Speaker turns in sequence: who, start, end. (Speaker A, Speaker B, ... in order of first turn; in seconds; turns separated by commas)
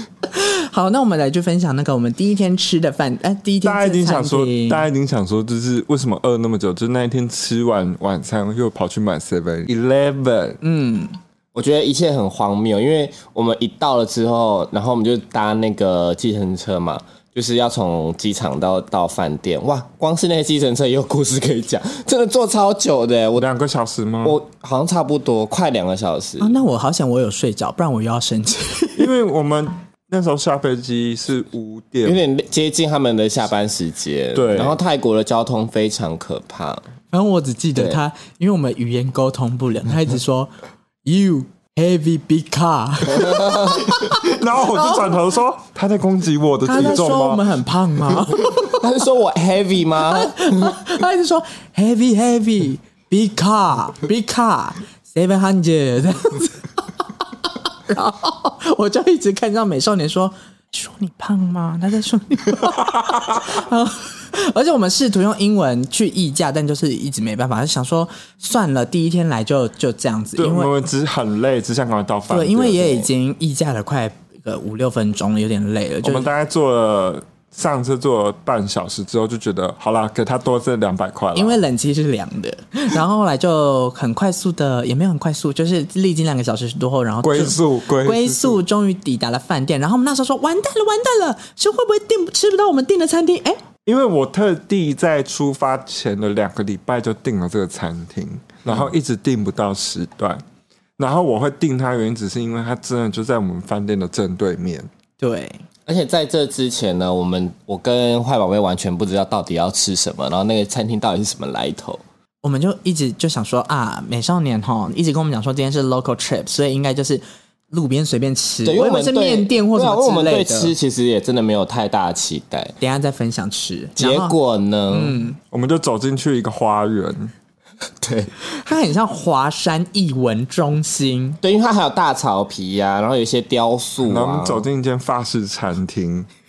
Speaker A: 0.3-4.9, Speaker B: 3.6-10.6, Speaker A: 10.6-11.1, Speaker C: 11.5-23.5, Speaker B: 23.4-24.4, Speaker C: 24.2-26.6, Speaker A: 26.4-29.1, Speaker B: 29.0-32.2, Speaker C: 32.0-36.8, Speaker B: 34.3-34.8, Speaker A: 37.1-40.5, Speaker A: 41.0-45.2, Speaker C: 43.1-43.9, Speaker B: 43.8-47.5, Speaker A: 46.6-48.9, Speaker C: 48.6-50.8, Speaker A: 50.1-70.7, Speaker B: 62.6-63.5, Speaker B: 70.4-73.1, Speaker A: 72.3-76.3, Speaker B: 76.0-81.6, Speaker A: 81.3-93.6, Speaker B: 87.2-88.6, Speaker B: 93.8-100.4, Speaker B: 101.0-104.9, Speaker A: 105.2-105.6, Speaker C: 105.9-112.0, Speaker A: 112.4-120.7, Speaker C: 118.6-122.8, Speaker A: 122.8-124.3, Speaker C: 124.0-125.2, Speaker A: 124.9-125.4, Speaker B: 125.5-127.3, Speaker C: 128.0-128.3, Speaker A: 128.5-131.4, Speaker C: 131.4-134.7, Speaker B: 134.0-136.3